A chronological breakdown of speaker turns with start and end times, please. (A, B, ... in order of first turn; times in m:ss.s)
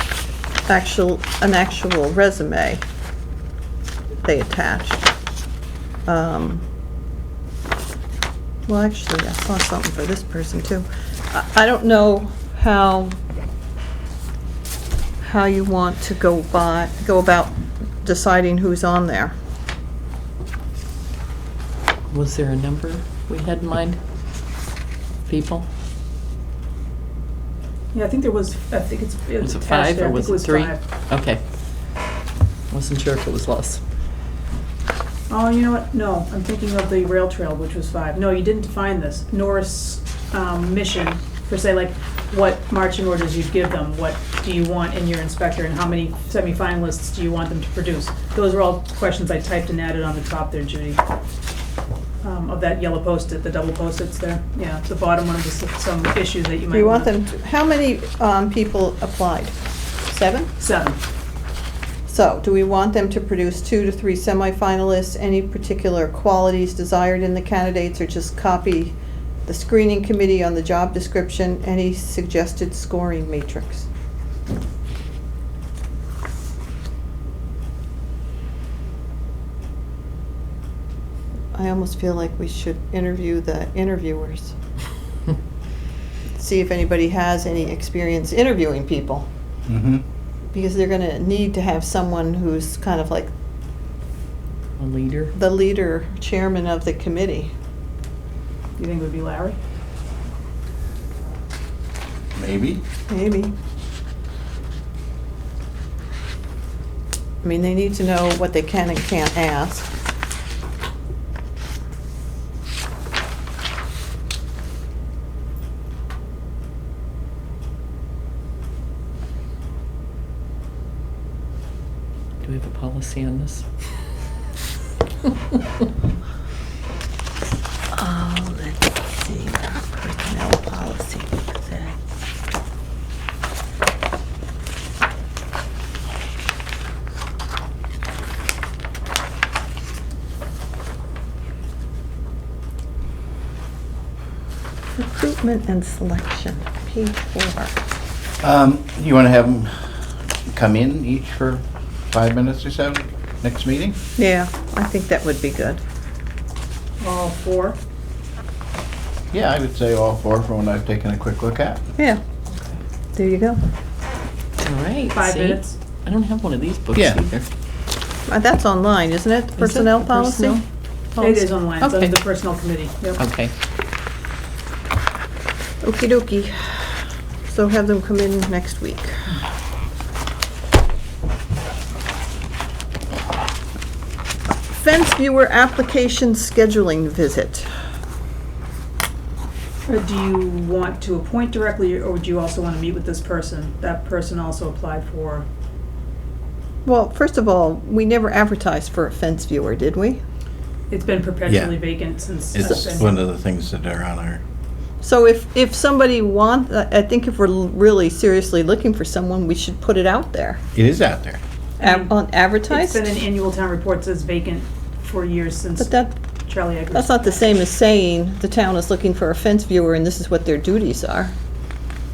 0:00.7-0:02.8 A
0:04.2-0:05.0 A
0:06.1-0:06.6 A
0:08.7-0:13.2 A
0:15.2-0:19.3 A
0:22.1-0:24.0 B
0:25.3-0:25.7 B
0:27.9-0:30.8 C
0:29.4-0:31.4 B
0:32.7-0:33.8 B
0:35.3-0:51.0 C
0:52.2-0:57.1 C
0:56.7-0:59.6 A
1:00.1-1:00.5 A
1:00.6-1:01.0 C
1:02.1-1:13.9 A
1:21.5-1:24.6 A
1:26.4-1:29.3 A
1:29.7-1:30.0 D
1:30.5-1:33.3 A
1:34.8-1:35.3 B
1:35.3-1:37.5 A
1:38.8-1:39.6 C
1:42.4-1:42.8 D
1:43.1-1:43.5 A
1:47.4-1:49.9 A
2:02.4-2:03.6 B
2:07.9-2:12.0 A
2:25.0-2:27.8 A
2:28.4-2:34.0 D
2:34.2-2:35.8 A
2:37.0-2:37.8 C
2:39.3-2:41.8 D
2:43.2-2:43.6 A
2:44.6-2:47.5 B
2:45.1-2:45.8 C
2:47.0-2:47.2 D
2:48.3-2:50.6 A
2:49.6-2:50.6 B
2:51.2-2:52.2 B
2:51.2-2:53.2 C
2:53.2-2:53.5 B
2:55.8-2:59.4 A
3:04.7-3:07.7 A
3:09.9-3:15.5 C
3:16.8-3:20.2 A
3:20.9-3:23.1 C
3:21.5-3:21.8 D
3:22.5-3:24.4 D
3:25.0-3:30.6 A
3:30.8-3:31.4 D
3:31.8-3:37.6 C
3:31.8-3:33.1 A
3:35.8-3:36.1 A
3:36.9-3:41.4 A